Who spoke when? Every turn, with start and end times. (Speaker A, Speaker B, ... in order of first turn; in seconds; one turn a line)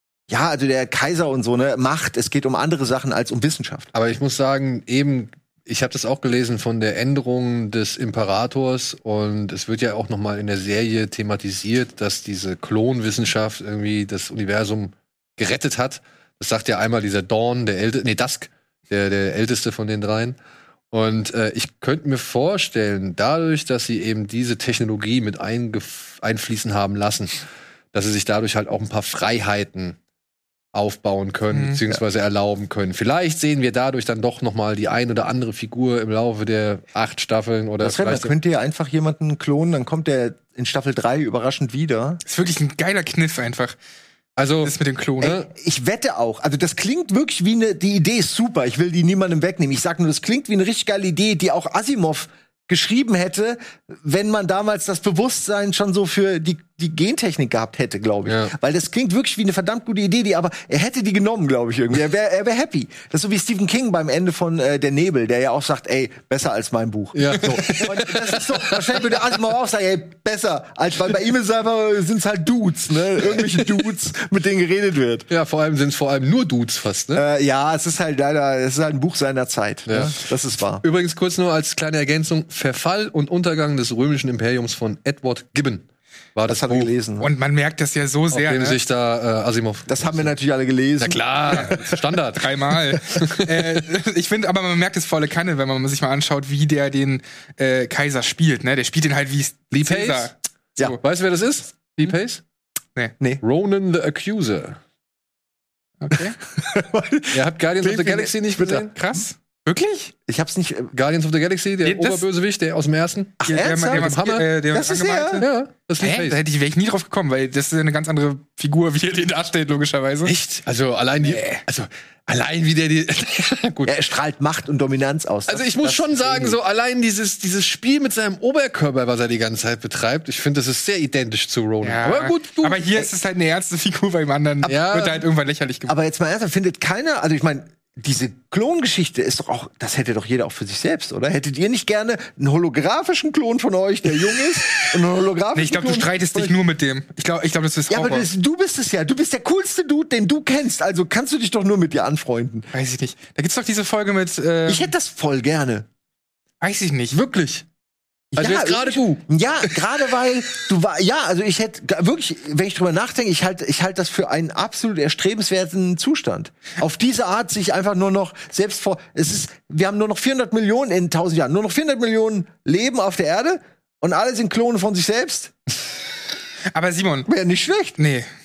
Speaker A: 0.3-3.9
Speaker B: 3.9-20.4
Speaker B: 20.9-30.0
Speaker B: 30.7-38.3
Speaker C: 31.5-31.8
Speaker A: 37.8-42.2
Speaker C: 42.3-43.8
Speaker B: 44.4-45.4
Speaker C: 44.6-45.4
Speaker A: 45.2-75.3
Speaker B: 58.3-58.5
Speaker B: 67.1-68.8
Speaker B: 75.3-77.2
Speaker A: 77.2-80.8
Speaker B: 79.9-80.2
Speaker B: 80.8-86.9
Speaker A: 86.5-87.3
Speaker C: 87.2-88.8
Speaker B: 88.3-90.3
Speaker A: 89.9-91.9
Speaker B: 91.0-92.5
Speaker C: 92.3-101.0
Speaker B: 93.0-93.8
Speaker B: 99.7-102.4
Speaker B: 103.4-104.8
Speaker C: 106.0-106.4
Speaker A: 106.5-108.9
Speaker B: 107.3-108.9
Speaker C: 108.9-110.1
Speaker A: 110.3-110.9
Speaker B: 110.9-114.5
Speaker C: 111.8-112.2
Speaker A: 113.4-114.1
Speaker C: 113.4-115.5
Speaker A: 114.7-115.4
Speaker B: 115.4-116.4
Speaker C: 116.0-120.3
Speaker B: 120.3-123.9
Speaker C: 121.2-121.6
Speaker A: 123.8-126.6
Speaker B: 125.5-132.9
Speaker C: 131.8-135.9
Speaker B: 134.6-135.2
Speaker A: 135.9-146.6
Speaker C: 145.6-148.3
Speaker A: 147.9-152.7
Speaker C: 152.7-154.9
Speaker A: 154.7-155.9
Speaker C: 156.6-157.2
Speaker B: 157.1-157.7
Speaker A: 158.3-175.6
Speaker B: 158.4-159.8
Speaker C: 176.7-177.3
Speaker A: 177.3-178.0
Speaker C: 178.0-178.3